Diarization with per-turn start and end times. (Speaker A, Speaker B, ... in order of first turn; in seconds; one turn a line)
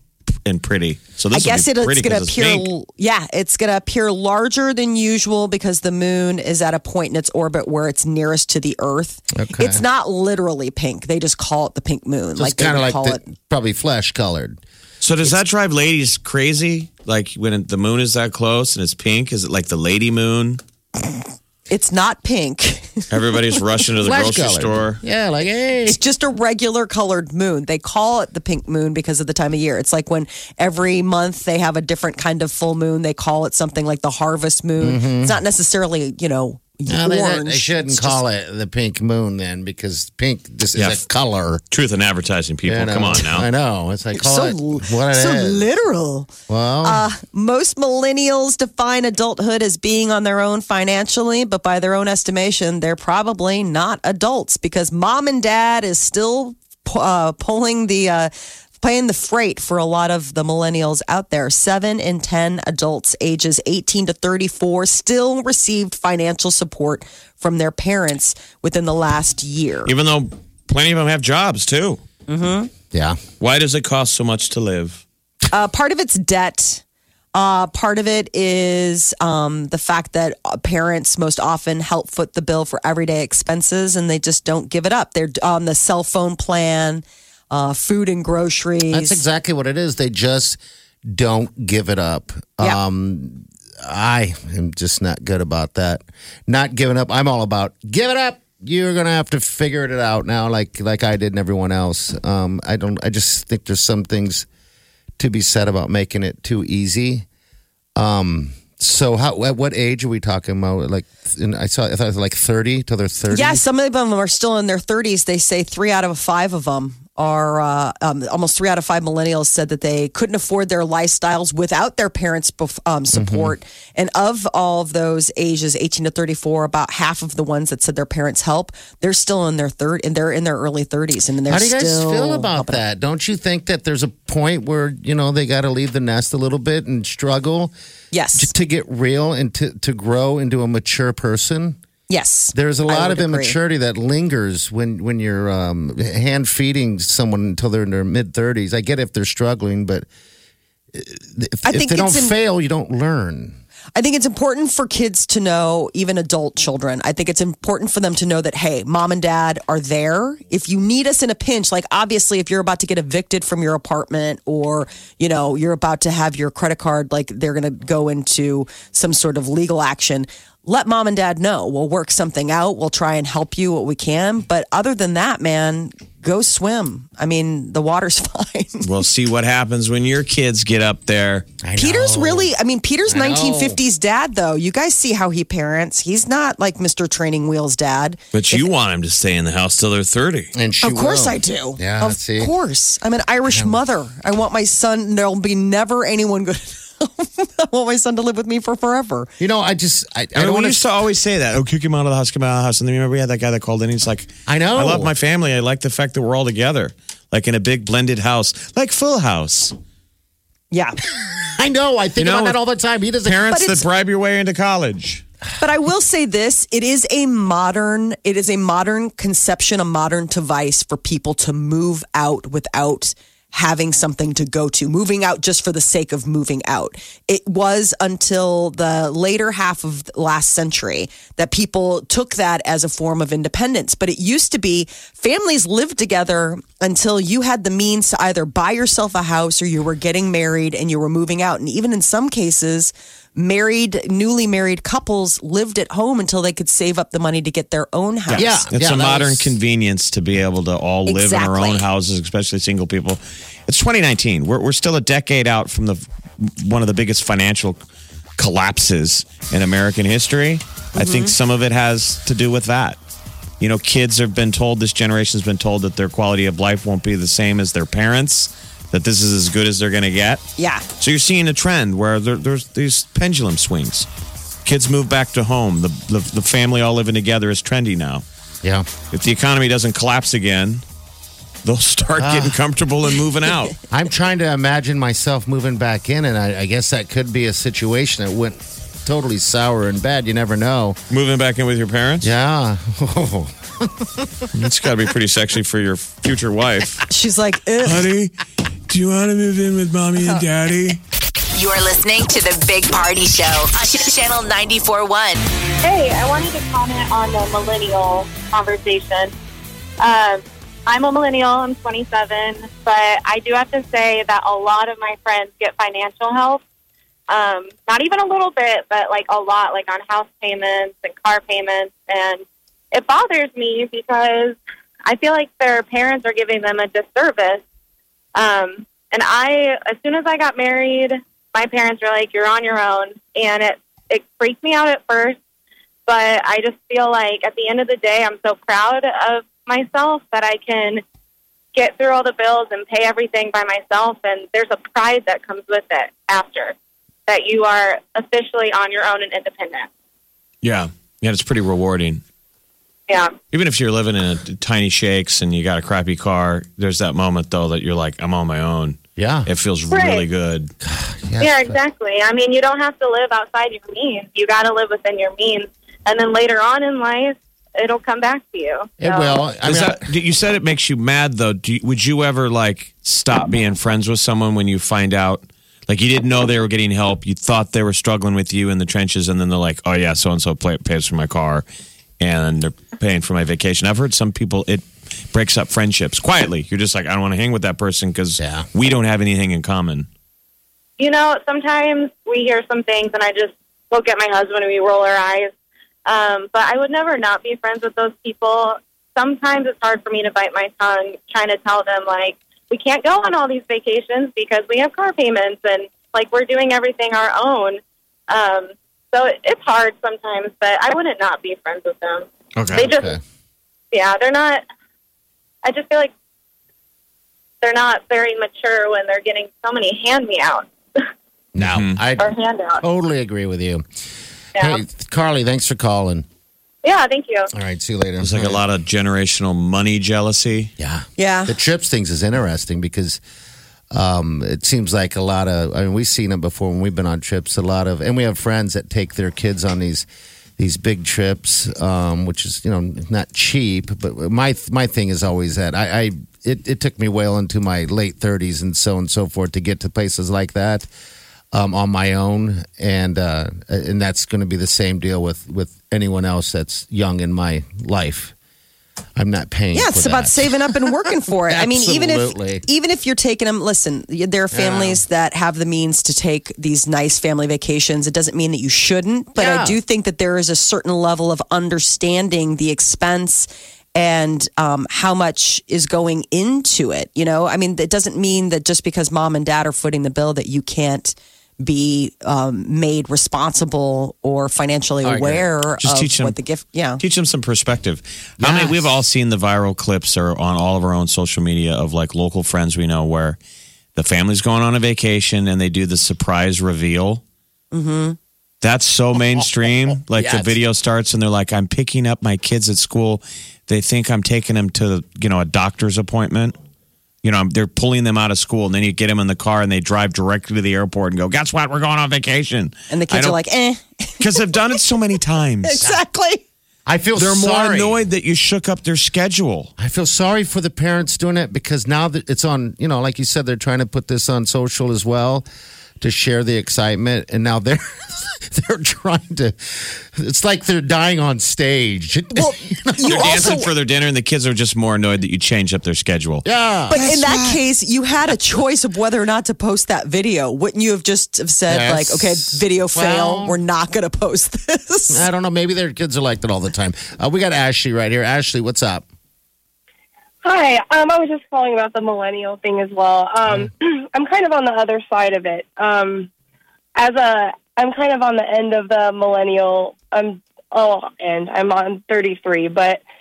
Speaker A: 0.4-2.7
Speaker B: 1.3-13.2
Speaker C: 9.3-9.8
Speaker C: 12.3-14.6
Speaker A: 15.0-20.6
Speaker B: 21.7-23.0
Speaker A: 23.1-25.0
Speaker C: 24.0-26.0
Speaker B: 25.9-38.2
Speaker C: 34.8-35.4
Speaker C: 36.9-41.6
Speaker A: 40.7-41.0
Speaker A: 41.7-43.5
Speaker C: 42.7-45.6
Speaker B: 44.1-46.3
Speaker C: 46.5-47.0
Speaker B: 46.8-69.9
Speaker A: 69.8-72.0
Speaker B: 72.3-72.7
Speaker C: 72.9-73.2
Speaker A: 73.4-75.0
Speaker B: 75.5-76.8
Speaker B: 77.3-89.2
Speaker C: 88.9-104.5
Speaker C: 105.2-107.2
Speaker C: 108.0-113.6
Speaker B: 113.3-132.8
Speaker C: 123.1-123.5
Speaker C: 131.5-137.7
Speaker B: 138.1-138.5
Speaker C: 138.3-141.8
Speaker B: 142.1-143.6
Speaker C: 142.5-150.1
Speaker C: 150.9-153.6
Speaker B: 151.6-152.3
Speaker B: 153.9-178.9
Speaker A: 178.8-181.5
Speaker C: 181.6-182.5
Speaker B: 181.8-188.7
Speaker C: 183.1-183.8
Speaker A: 188.3-190.5
Speaker C: 190.5-192.5
Speaker B: 190.8-199.3
Speaker C: 193.5-193.8
Speaker C: 199.4-200.9
Speaker A: 200.3-209.7
Speaker C: 204.5-205.1
Speaker B: 210.7-211.0
Speaker C: 211.2-213.8
Speaker A: 212.2-212.6
Speaker A: 213.2-215.2
Speaker B: 213.5-213.8
Speaker B: 215.6-248.7
Speaker A: 248.3-257.8
Speaker C: 248.3-249.5
Speaker B: 251.1-251.8
Speaker A: 258.4-263.0
Speaker B: 261.0-261.3
Speaker A: 263.6-270.4
Speaker B: 270.6-270.8
Speaker A: 271.0-274.1
Speaker A: 274.6-278.2
Speaker C: 278.6-278.9
Speaker A: 279.1-280.8
Speaker A: 281.6-283.8
Speaker C: 282.2-282.6
Speaker C: 283.9-291.0
Speaker A: 291.1-292.3
Speaker C: 292.2-294.4
Speaker A: 294.5-297.0
Speaker B: 297.1-298.0
Speaker A: 297.8-298.3
Speaker A: 298.9-301.0
Speaker D: 301.5-305.4
Speaker E: 305.8-309.3
Speaker E: 310.0-316.6
Speaker E: 317.3-327.6
Speaker E: 328.3-335.4
Speaker E: 336.1-341.0
Speaker E: 341.7-346.7
Speaker E: 347.3-349.9
Speaker A: 350.6-352.2
Speaker E: 353.1-353.3
Speaker A: 353.5-360.7
Speaker C: 359.2-359.5
Speaker E: 359.9-360.2
Speaker C: 360.8-361.8
Speaker E: 361.4-369.4
Speaker C: 369.0-370.1
Speaker A: 369.6-381.6
Speaker A: 382.2-390.1
Speaker C: 388.4-388.6
Speaker E: 391.0-395.5
Speaker E: 396.1-413.2
Speaker A: 412.6-412.9
Speaker C: 412.7-413.2
Speaker E: 413.9-414.6
Speaker E: 415.6-416.1
Speaker E: 417.6-420.7
Speaker C: 421.5-423.8
Speaker A: 421.6-422.0
Speaker E: 422.2-422.8
Speaker C: 424.6-426.3
Speaker E: 426.8-427.5
Speaker C: 427.5-428.6
Speaker A: 428.2-430.7
Speaker C: 430.8-433.2
Speaker B: 431.2-431.5
Speaker C: 433.9-440.1
Speaker C: 440.6-450.9
Speaker C: 451.5-458.3
Speaker C: 459.1-460.9
Speaker B: 459.7-487.0
Speaker C: 461.4-462.6
Speaker C: 464.5-465.0
Speaker C: 469.4-469.8
Speaker C: 485.0-485.5
Speaker A: 485.8-486.4
Speaker A: 487.0-493.4
Speaker C: 488.4-488.9
Speaker A: 493.9-497.2
Speaker B: 497.7-498.2
Speaker A: 498.6-506.6
Speaker C: 500.1-500.6
Speaker A: 507.2-513.4
Speaker B: 512.9-514.8
Speaker A: 514.2-515.9
Speaker B: 515.6-516.4
Speaker C: 516.9-518.0
Speaker A: 517.1-519.7
Speaker C: 519.8-525.5
Speaker C: 526.0-533.6
Speaker B: 532.4-533.7
Speaker A: 533.0-536.4
Speaker C: 536.4-537.5
Speaker B: 536.9-545.2
Speaker C: 541.7-543.6
Speaker C: 545.1-549.0
Speaker F: 550.4-556.3
Speaker C: 553.5-553.7
Speaker F: 557.0-563.0